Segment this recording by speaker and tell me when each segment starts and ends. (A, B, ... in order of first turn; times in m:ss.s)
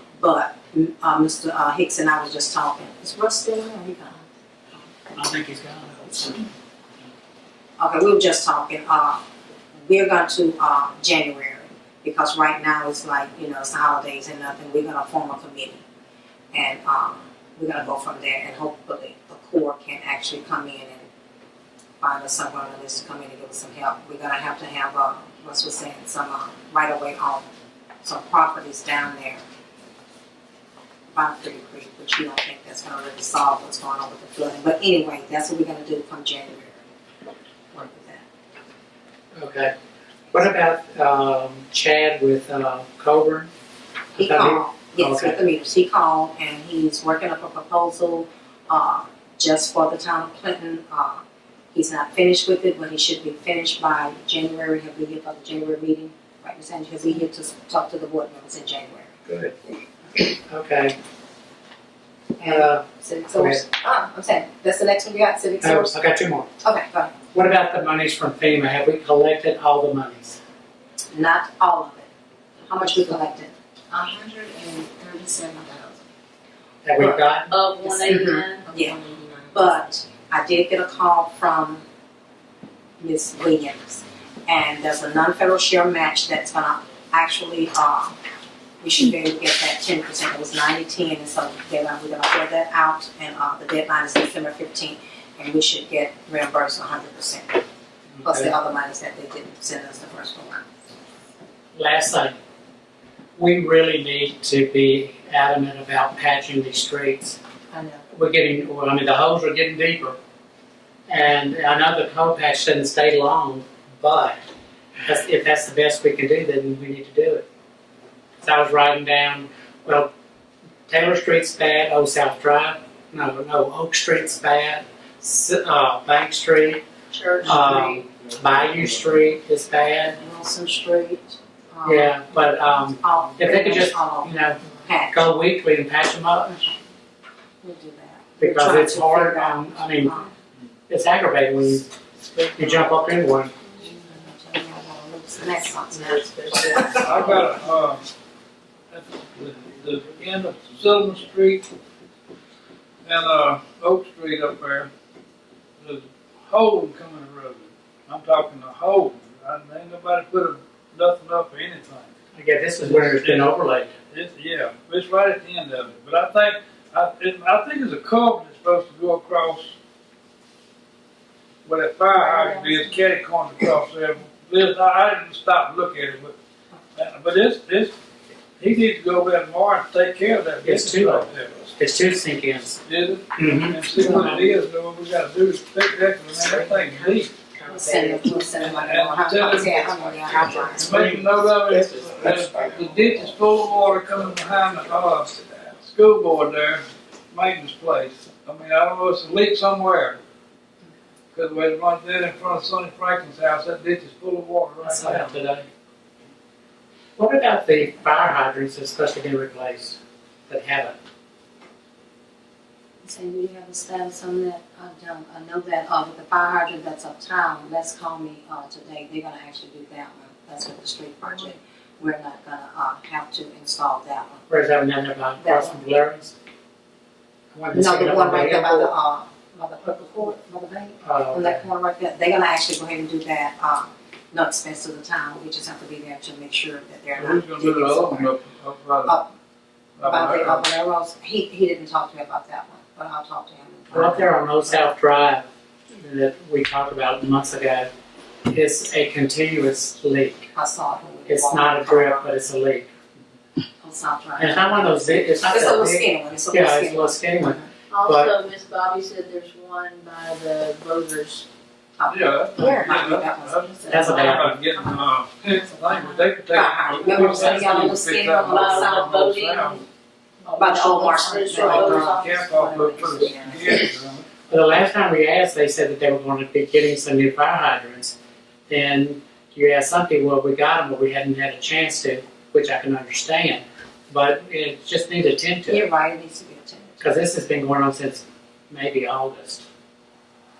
0:00.2-0:04.2 A
0:05.1-0:06.4 B
0:07.8-0:09.2 A
0:09.9-0:15.8 A
0:16.5-0:21.1 A
0:22.0-0:27.5 A
0:28.0-0:29.4 A
0:31.1-0:36.9 A
0:37.7-0:38.3 A
0:39.4-0:39.7 B
0:40.3-0:43.5 B
0:44.2-0:45.4 B
0:44.2-0:51.2 A
0:51.7-0:59.1 A
0:59.3-0:59.5 B
1:00.2-1:01.0 B
1:02.4-1:06.0 A
1:02.4-1:02.8 B
1:03.4-1:03.6 B
1:05.6-1:06.5 B
1:06.6-1:07.2 A
1:07.3-1:10.4 B
1:11.1-1:12.1 A
1:12.7-1:13.5 A
1:13.9-1:16.0 C
1:16.8-1:17.5 B
1:17.5-1:18.6 D
1:17.8-1:19.7 C
1:18.0-1:19.0 A
1:19.5-1:21.8 A
1:23.0-1:28.2 A
1:28.8-1:37.6 A
1:38.2-1:38.5 B
1:38.2-1:40.7 A
1:41.8-1:42.4 B
1:43.4-1:47.4 B
1:47.7-1:48.0 A
1:48.1-1:50.2 B
1:51.1-1:54.4 B
1:55.0-1:57.4 B
1:58.4-2:00.1 B
2:00.9-2:06.8 B
2:07.1-2:07.6 D
2:07.4-2:10.2 B
2:10.2-2:12.2 A
2:11.8-2:16.7 B
2:12.8-2:15.1 A
2:17.6-2:20.3 A
2:18.4-2:20.2 B
2:20.9-2:23.5 B
2:23.8-2:27.5 A
2:26.0-2:27.2 C
2:27.0-2:28.0 E
2:28.9-2:31.7 E
2:33.0-2:34.9 E
2:35.8-2:42.1 E
2:42.4-2:44.0 B
2:42.8-2:43.5 E
2:44.1-2:49.8 E
2:51.6-2:56.4 E
2:52.4-2:52.7 A
2:57.0-2:58.0 E
2:58.6-3:01.8 E
3:00.6-3:02.8 B
3:02.8-3:07.3 E
3:03.4-3:04.4 B
3:06.5-3:08.6 C
3:07.7-3:11.1 A
3:08.5-3:09.8 E
3:09.6-3:11.1 C
3:10.8-3:20.2 E
3:11.7-3:13.1 C
3:21.3-3:25.4 E
3:24.8-3:25.7 B
3:27.2-3:31.0 B
3:33.0-3:44.5 A
3:44.5-3:46.3 B
3:45.4-3:45.8 A
3:47.5-3:48.9 B
3:47.7-3:58.4 A
3:51.0-3:51.6 B
3:57.2-3:59.2 E
3:59.0-3:59.3 A
4:00.0-4:00.6 E
4:00.0-4:04.8 A
4:03.9-4:07.9 B
4:08.5-4:10.5 B
4:10.6-4:12.3 A
4:11.3-4:12.9 B
4:13.8-4:17.7 A
4:14.4-4:18.3 B
4:17.9-4:21.5 D
4:22.0-4:24.5 A
4:22.1-4:29.8 E
4:23.9-4:24.6 B
4:26.5-4:29.1 A
4:28.4-4:29.8 D
4:30.5-4:33.6 D
4:30.6-4:33.8 A
4:31.5-4:34.3 E
4:34.5-4:38.2 B
4:38.7-4:45.9 B
4:45.7-4:47.1 A
4:47.0-4:49.6 B